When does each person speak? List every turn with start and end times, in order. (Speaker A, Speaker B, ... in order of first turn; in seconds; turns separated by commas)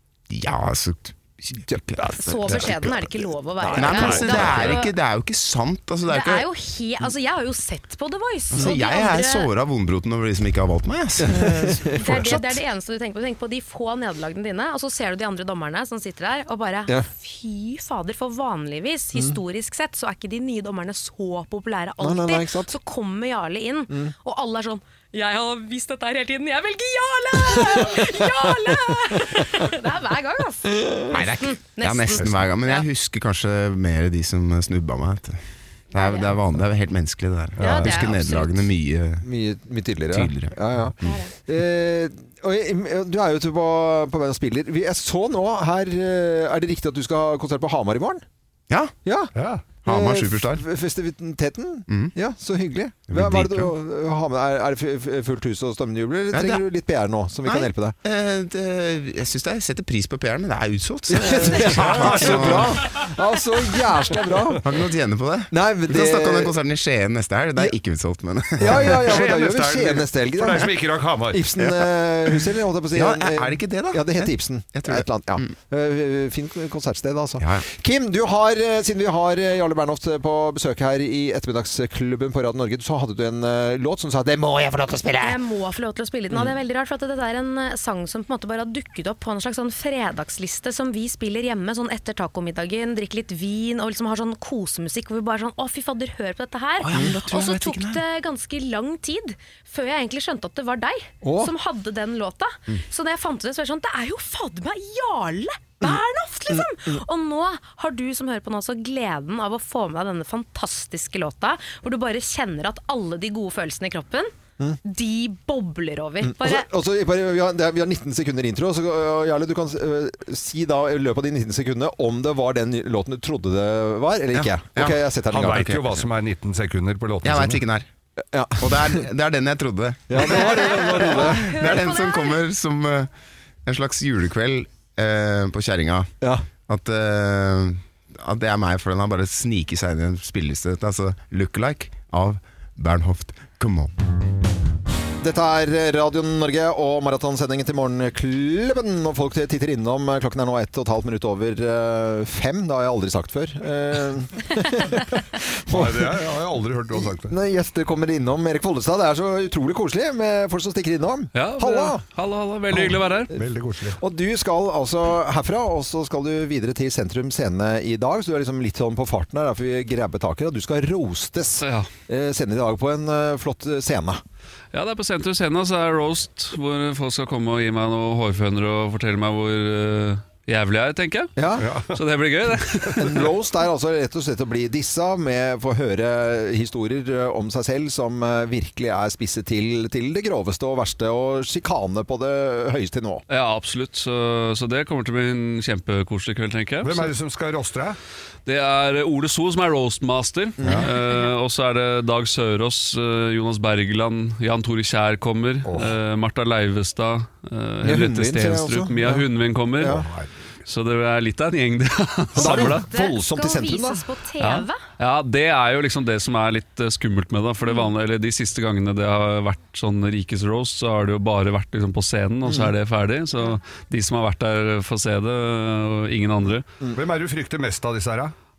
Speaker A: 0.3-3.0, Speaker B: 2.0-2.7, Speaker C: 2.1-4.9, Speaker B: 3.6-4.8, Speaker A: 3.7-6.5, Speaker D: 3.9-4.1, Speaker C: 6.1-9.5, Speaker A: 8.5-12.5, Speaker B: 11.2-12.5, Speaker C: 11.9-32.9, Speaker B: 22.0-22.7, Speaker A: 31.1-35.4, Speaker A: 35.9-39.2, Speaker C: 35.9-36.4, Speaker C: 37.6-38.6, Speaker B: 39.2-48.2, Speaker A: 40.1-41.1, Speaker C: 41.0-41.3, Speaker A: 48.7-48.9, Speaker B: 49.0-49.3, Speaker D: 49.3-49.7, Speaker A: 49.8-50.6, Speaker B: 49.9-58.0, Speaker A: 51.9-52.1, Speaker A: 53.1-53.7, Speaker A: 56.3-56.6, Speaker A: 57.5-62.7, Speaker B: 61.1-64.6, Speaker D: 61.5-62.8, Speaker A: 64.6-68.9, Speaker B: 65.5-66.5, Speaker B: 68.6-70.7, Speaker D: 68.7-71.4, Speaker B: 71.3-85.4, Speaker A: 71.6-71.9, Speaker A: 72.9-75.5, Speaker A: 77.4-77.6, Speaker C: 85.2-114.3, Speaker A: 96.8-98.0, Speaker B: 96.9-97.2, Speaker B: 101.2-101.5, Speaker B: 105.8-107.0, Speaker C: 114.8-116.7, Speaker B: 116.2-125.9, Speaker D: 125.3-127.6, Speaker A: 127.2-127.9, Speaker B: 128.3-129.0, Speaker A: 128.6-133.1, Speaker B: 130.1-131.7, Speaker C: 130.3-132.4, Speaker A: 133.6-136.1, Speaker B: 136.2-136.4, Speaker A: 136.7-143.9, Speaker B: 145.2-156.2, Speaker D: 155.7-157.3, Speaker B: 157.0-162.0, Speaker E: 161.3-163.3, Speaker B: 162.7-163.0, Speaker D: 163.3-164.0, Speaker B: 164.0-174.2, Speaker E: 171.6-171.9, Speaker E: 174.7-181.3, Speaker B: 181.3-181.7, Speaker D: 181.6-182.0, Speaker E: 181.9-183.2, Speaker B: 182.9-193.2, Speaker E: 193.3-197.1, Speaker D: 196.8-198.0, Speaker E: 198.4-209.9, Speaker B: 200.6-200.9, Speaker D: 205.7-206.0, Speaker B: 207.8-209.3, Speaker B: 209.8-210.1, Speaker D: 209.8-210.3, Speaker E: 210.6-212.8, Speaker B: 212.3-214.1, Speaker C: 212.4-214.8, Speaker E: 214.4-226.7, Speaker C: 217.6-217.9, Speaker B: 222.4-222.7, Speaker D: 226.9-228.3